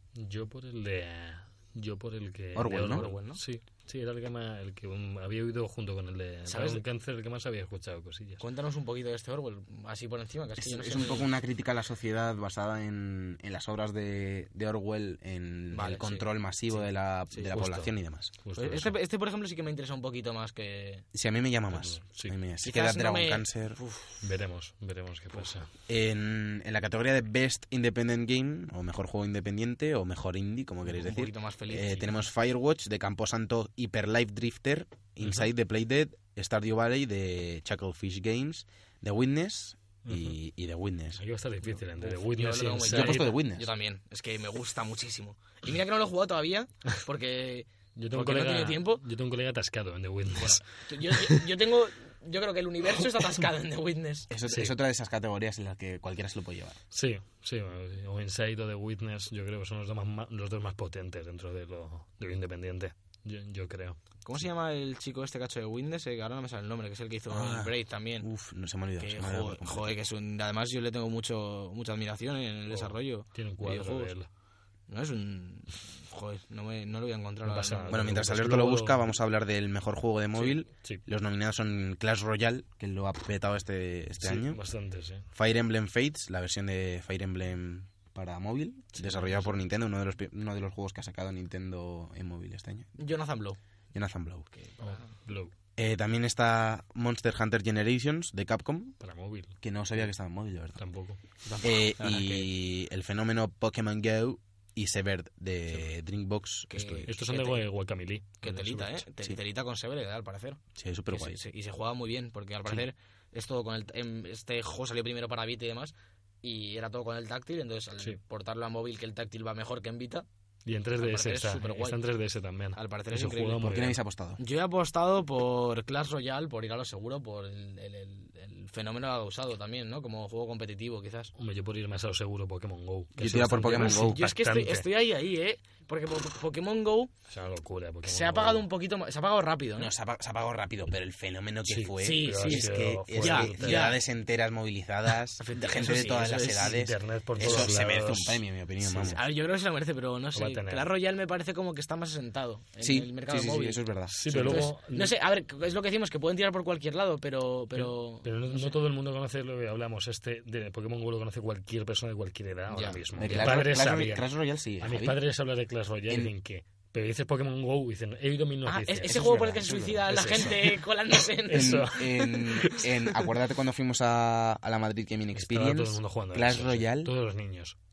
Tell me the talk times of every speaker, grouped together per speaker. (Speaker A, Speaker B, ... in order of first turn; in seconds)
Speaker A: 0.1-8.4, 17.5-18.9, 21.7-22.3, 24.2-25.7, 40.0-40.4, 41.2-43.3, 48.0-51.4, 56.9-64.0, 72.7-74.3, 77.4-79.0, 84.2-85.2, 89.0-89.6, 94.8-95.5, 99.0-99.6, 100.8-101.2, 107.1-109.0, 120.6-124.0, 131.4-134.8, 137.3-138.7, 141.7-143.9, 146.4-149.2, 150.3-150.9, 154.1-155.1, 157.8-164.3, 164.8-169.4, 170.1-170.8, 171.4-173.0, 175.3-177.8
Speaker B: 2.5-3.1, 10.6-18.3, 21.1-23.8, 25.9-41.2, 42.9-43.7, 54.3-56.8, 67.3-69.9, 77.9-84.6, 85.3-92.9, 93.9-94.5, 95.8-99.0, 99.6-100.8, 101.6-107.1, 110.7-111.4, 123.6-124.4, 133.2-134.2, 139.8-149.2, 152.8-154.7, 163.2-165.2, 169.0-170.6, 171.5-177.1
Speaker C: 2.9-3.4, 6.5-6.8, 8.4-11.3, 15.7-17.5, 18.5-21.1, 22.6-24.2, 30.9-32.2, 41.8-49.0, 50.4-54.3, 64.2-68.3, 69.0-74.1, 74.9-78.0, 93.0-93.6, 94.5-95.1, 101.4-102.5, 106.7-107.6, 108.4-120.2, 121.0-122.0, 122.7-123.7, 124.4-131.3, 133.8-137.1, 138.0-139.9, 142.0-144.0, 145.4-146.8, 147.4-147.7, 149.0-158.8, 162.7-163.6, 168.7-171.9